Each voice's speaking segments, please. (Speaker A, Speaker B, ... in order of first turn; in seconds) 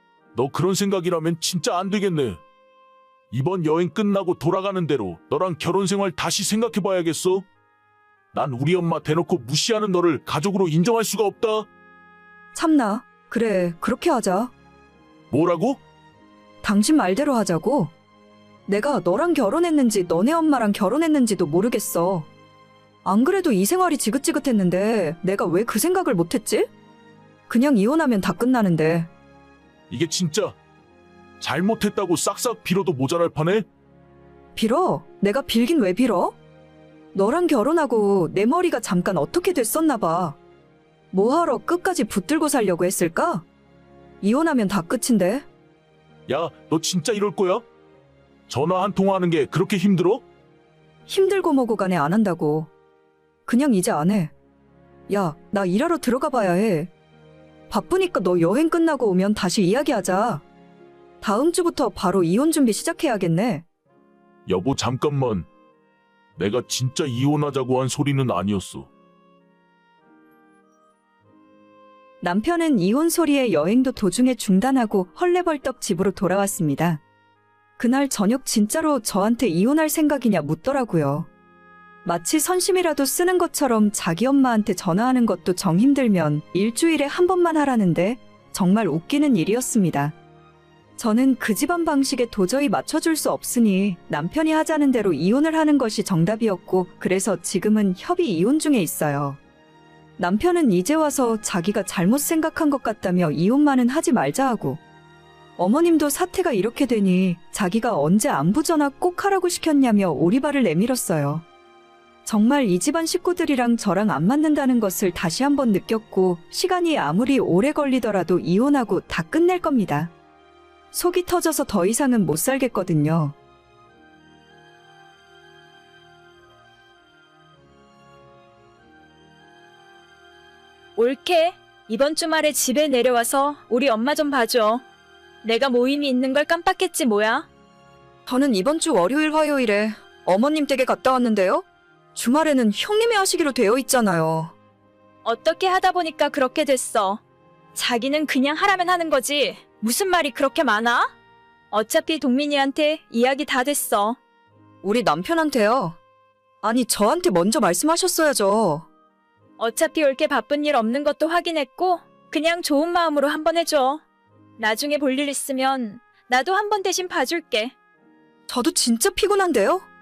Speaker A: 0.3-2.4, 3.3-7.5, 8.3-11.7, 15.3-15.8, 29.9-30.6, 31.4-33.7, 46.3-47.6, 48.5-50.2, 64.5-65.5, 66.4-68.9
Speaker B: 12.5-14.5, 16.6-17.9, 18.7-22.3, 23.1-26.7, 27.5-29.1, 34.6-36.4, 37.1-40.4, 41.1-43.5, 44.2-45.5, 51.1-52.7, 53.5-54.3, 55.1-56.9, 57.7-60.5, 61.2-63.6, 72.2-77.0, 77.8-81.3, 82.0-90.2, 91.0-99.4, 100.2-104.8, 105.6-111.4, 112.2-120.1, 120.9-123.3, 138.3-141.6, 142.2-144.5, 154.8-156.0, 156.6-158.9, 168.5-169.9
Speaker C: 131.0-134.8, 135.4-137.5, 145.2-147.2, 147.8-151.1, 151.7-154.2, 159.6-164.0, 164.6-167.7